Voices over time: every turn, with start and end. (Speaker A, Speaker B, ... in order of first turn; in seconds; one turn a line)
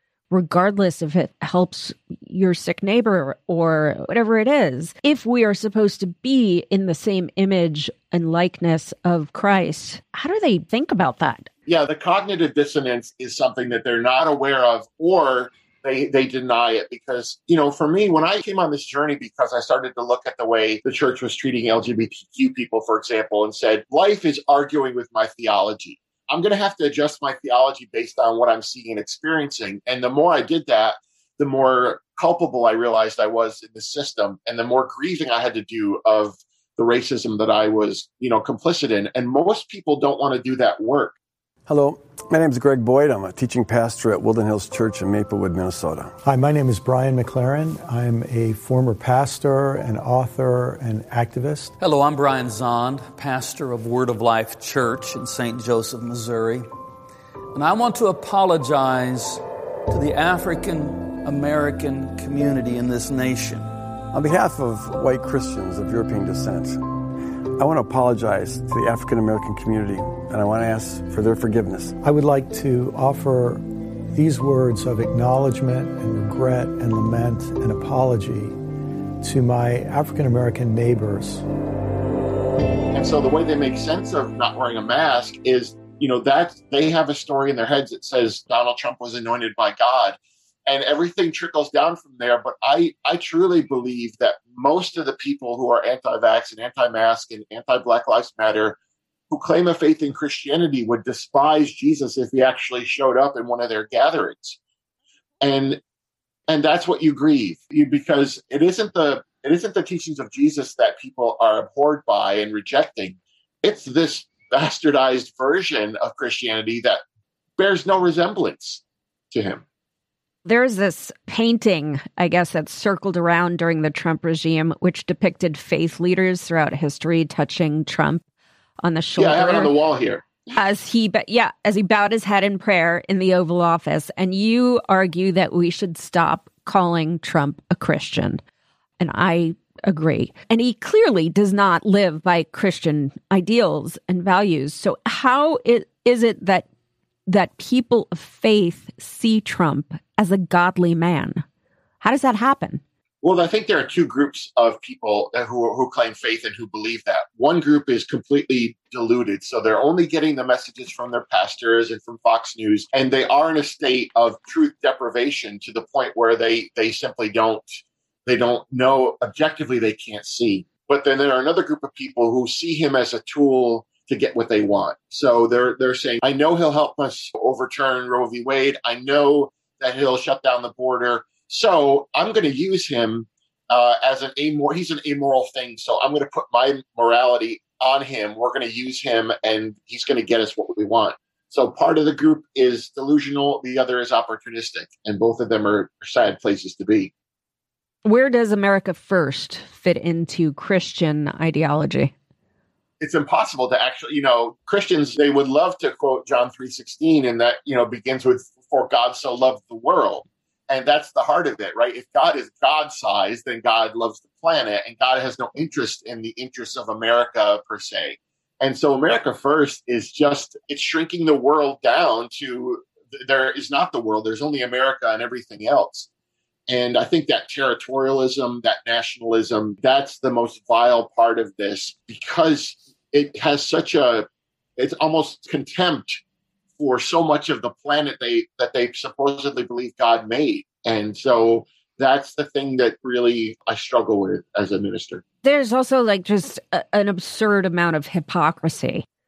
Speaker A: 0.3-11.5
Speaker B: 11.7-41.1
Speaker C: 41.7-46.1
Speaker D: 46.2-51.7
Speaker E: 51.8-56.7
Speaker E: 57.5-63.7
Speaker C: 64.1-66.8
Speaker C: 67.5-72.0
Speaker D: 72.0-78.6
Speaker D: 79.2-81.4
Speaker B: 82.9-98.8
Speaker B: 99.3-104.6
Speaker B: 105.4-105.8
Speaker B: 106.5-117.0
Speaker B: 117.6-119.6
Speaker A: 120.5-128.2
Speaker A: 128.8-129.7
Speaker B: 129.2-130.2
Speaker A: 130.5-138.4
Speaker A: 139.0-146.7
Speaker A: 147.3-151.4
Speaker A: 152.0-152.8
Speaker B: 153.2-197.1
Speaker A: 198.0-202.1
Speaker B: 203.0-226.1
Speaker B: 226.7-236.2
Speaker B: 236.8-245.2
Speaker A: 245.4-249.0